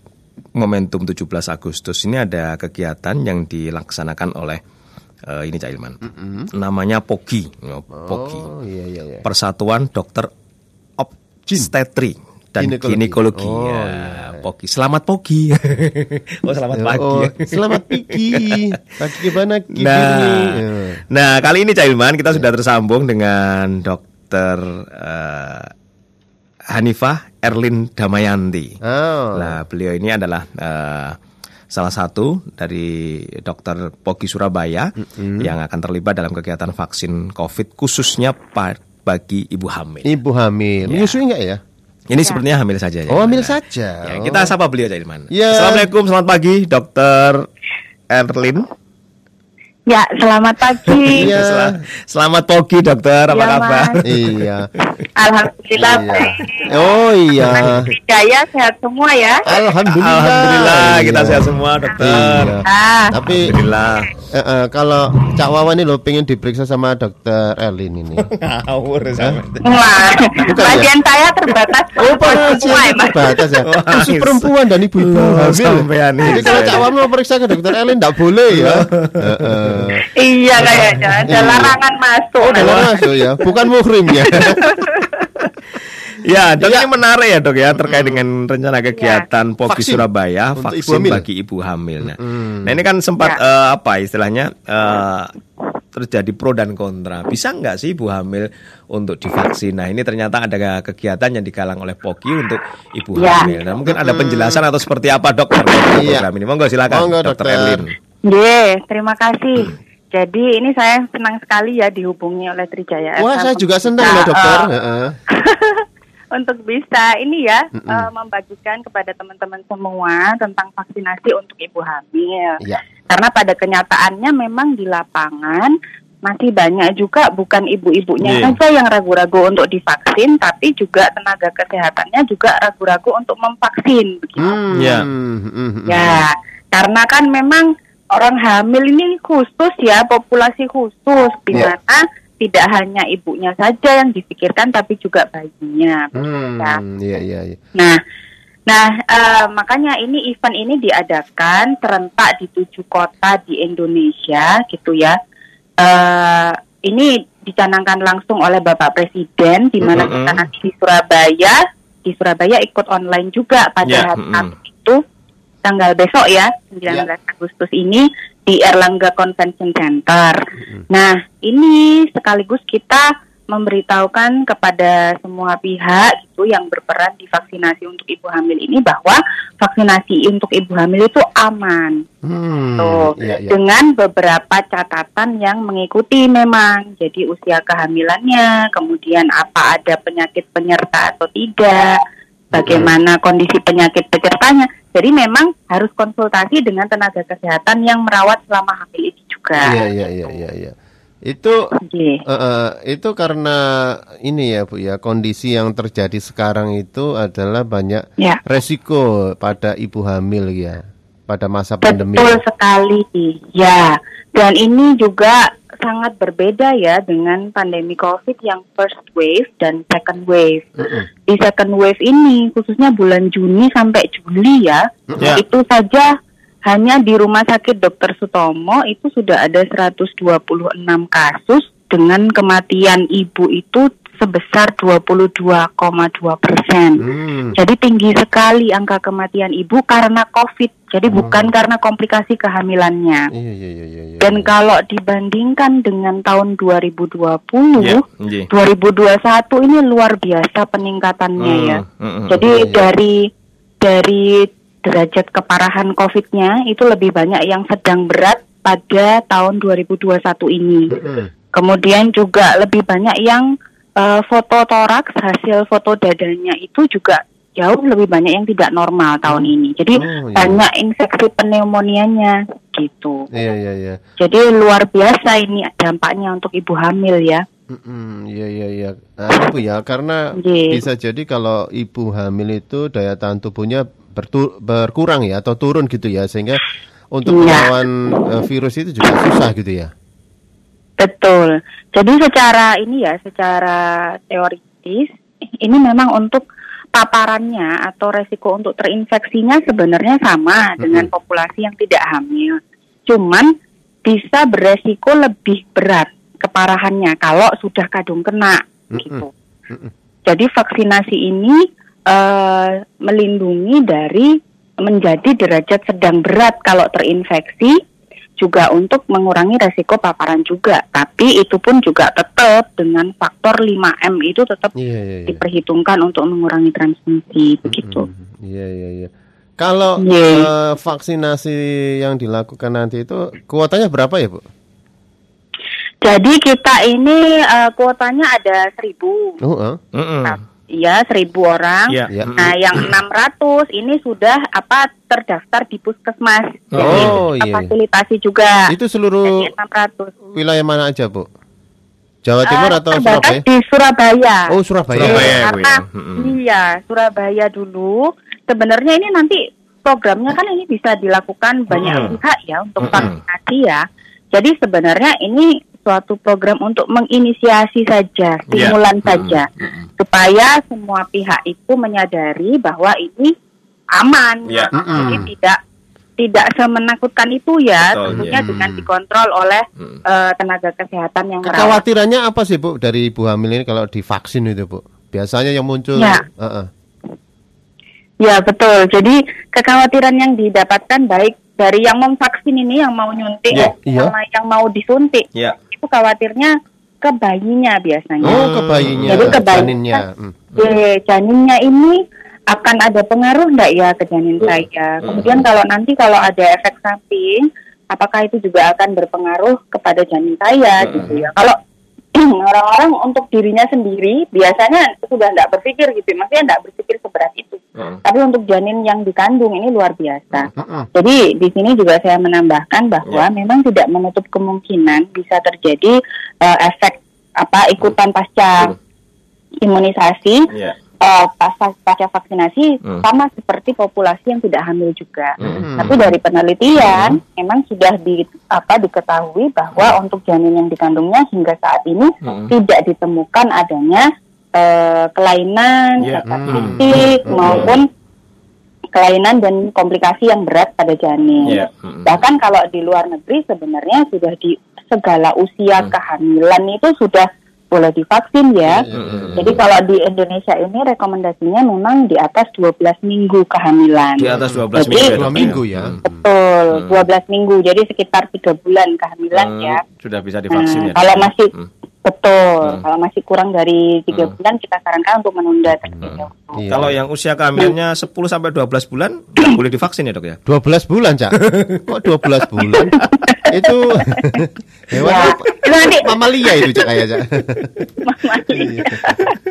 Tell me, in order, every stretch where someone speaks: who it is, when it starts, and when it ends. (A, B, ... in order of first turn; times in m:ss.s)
0:00.6-0:04.6 A
0:05.3-0:06.0 A
0:06.0-0:06.5 B
0:06.5-0:08.5 A
0:07.9-0:09.2 B
0:09.2-0:10.3 A
0:11.0-0:18.6 A
0:11.5-0:11.7 B
0:12.6-0:14.4 B
0:16.7-0:21.0 B
0:19.8-0:25.7 A
0:26.7-0:28.8 A
0:28.8-0:29.6 B
0:29.4-0:31.2 A
0:31.7-0:40.1 A
0:35.0-0:35.5 B
0:40.0-0:41.6 B
0:40.9-0:41.2 A
0:42.1-0:47.5 A
0:43.1-0:44.5 B
0:45.3-0:45.9 B
0:48.1-0:48.7 A
0:49.9-0:51.3 C
0:50.9-0:54.5 A
0:51.1-0:51.8 B
0:53.3-0:54.0 C
0:54.0-0:54.7 B
0:55.2-0:56.7 C
0:55.8-0:57.9 B
0:57.5-0:59.4 C
0:59.5-1:03.5 B
0:59.7-1:02.6 A
1:02.7-1:03.2 C
1:03.4-1:04.1 A
1:04.3-1:08.3 B
1:08.3-1:10.1 A
1:09.6-1:13.4 C
1:10.5-1:10.9 B
1:12.0-1:20.0 B
1:13.7-1:16.9 A
1:16.3-1:16.7 C
1:18.5-1:19.9 A
1:20.1-1:22.9 C
1:20.6-1:21.6 A
1:21.2-1:21.8 B
1:22.4-1:24.6 B
1:22.6-1:23.0 A
1:24.6-1:25.3 C
1:26.2-1:35.3 A
1:26.6-1:26.9 B
1:27.8-1:28.2 B
1:29.0-1:29.2 C
1:29.7-1:31.2 B
1:32.0-1:32.8 B
1:36.0-1:47.9 A
1:43.2-1:43.5 C
1:43.4-1:44.6 B
1:45.9-1:46.3 B
1:46.9-1:47.9 B
1:48.3-1:54.7 C
1:53.2-1:55.1 B
1:55.3-2:02.6 C
1:57.8-1:58.1 B
2:03.1-2:05.7 C
2:06.3-2:14.6 C
2:08.2-2:08.6 A
2:14.4-2:16.2 B
2:14.7-2:15.1 A
2:15.9-2:26.8 C
2:26.2-2:27.6 B
2:28.7-2:35.1 C
2:35.8-2:45.0 C
2:39.8-2:40.4 A
2:43.8-2:44.5 A
2:45.6-2:50.4 C
2:50.9-3:02.0 C
3:02.2-3:03.6 B
3:02.8-3:12.0 C
3:12.5-3:13.0 B
3:12.6-3:19.9 C
3:19.6-3:20.8 B
3:21.3-3:21.6 B
3:21.9-3:22.2 C
3:22.3-3:32.4 B
3:31.8-3:40.7 C
3:40.8-3:41.1 B
3:41.3-3:46.1 C
3:45.1-3:45.4 B
3:46.7-3:57.0 C
3:57.0-3:57.6 B
3:57.6-4:03.3 C
4:01.1-4:01.5 B
4:03.3-4:04.5 B
4:04.2-4:13.2 C
4:07.8-4:08.5 A
4:11.4-4:12.4 A
4:12.4-4:12.9 B
4:13.8-4:20.9 C
4:20.9-4:21.3 B
4:21.6-4:23.4 C
4:24.0-4:33.3 C
4:29.3-4:30.6 B
4:33.3-4:34.0 B
4:34.2-4:37.4 C
4:37.7-4:49.9 B
4:40.4-4:40.8 C
4:47.3-4:47.8 C
4:51.0-4:55.1 C
4:55.6-4:56.4 C
4:57.0-5:02.6 C
5:00.8-5:01.1 B
5:03.1-5:03.5 C
5:04.0-5:09.3 C
5:08.9-5:09.9 B
5:10.3-5:11.6 C
5:12.1-5:14.3 C
5:14.8-5:17.7 C
5:18.4-5:24.7 C
5:24.8-5:25.4 B
5:25.3-5:28.0 C
5:27.7-5:34.4 B
5:30.0-5:30.5 C
5:36.0-5:39.2 C
5:39.4-5:39.8 B
5:40.0-5:40.4 A
5:40.2-5:48.6 C
5:41.9-5:43.0 A
5:42.1-5:42.4 B
5:46.7-5:47.2 A
5:46.8-5:47.7 B
5:48.7-5:49.5 B
5:49.3-5:50.1 C
5:50.4-5:51.3 B
5:52.2-5:53.4 B
5:52.5-6:03.8 C
5:54.5-5:55.4 B
5:55.0-5:56.4 A
6:01.7-6:02.2 A
6:02.8-6:03.2 A
6:04.3-6:09.5 C
6:08.5-6:09.9 A
6:10.0-6:13.3 C
6:14.0-6:15.6 C
6:14.7-6:15.3 B
6:16.2-6:21.8 C
6:17.8-6:18.4 A
6:18.1-6:18.9 B
6:21.4-6:26.7 B
6:26.0-6:26.2 C
6:28.2-6:36.5 C
6:33.8-6:34.2 B
6:37.0-6:38.4 C
6:38.2-6:40.4 B
6:38.3-6:39.4 A
6:39.1-6:40.0 C
6:40.6-6:42.0 C
6:42.5-6:47.4 C
6:44.4-6:45.5 A
6:47.9-6:51.6 C
6:50.8-6:51.2 A
6:52.2-7:08.7 C
7:00.5-7:00.9 B
7:09.6-7:10.4 C
7:11.0-7:24.0 C
7:15.4-7:15.7 A
7:15.4-7:16.0 B
7:16.8-7:17.2 A
7:22.2-7:22.5 A
7:24.6-7:27.8 C
7:26.0-7:27.7 A
7:26.2-7:27.8 B
7:29.0-7:38.8 C
7:31.4-7:32.2 A
7:38.6-7:39.6 B
7:38.9-7:39.6 A
7:39.4-7:45.1 C
7:44.2-7:46.0 A
7:44.3-7:46.3 B
7:46.0-7:49.8 C
7:46.7-7:47.0 A
7:49.3-7:51.7 A
7:50.5-7:51.5 C
7:52.0-7:56.7 C
7:55.9-7:57.0 B
7:56.0-8:00.4 A
8:00.5-8:07.8 B
8:01.4-8:01.8 A
8:02.8-8:04.2 C
8:05.0-8:06.9 C
8:08.0-8:09.4 C
8:08.5-8:09.2 B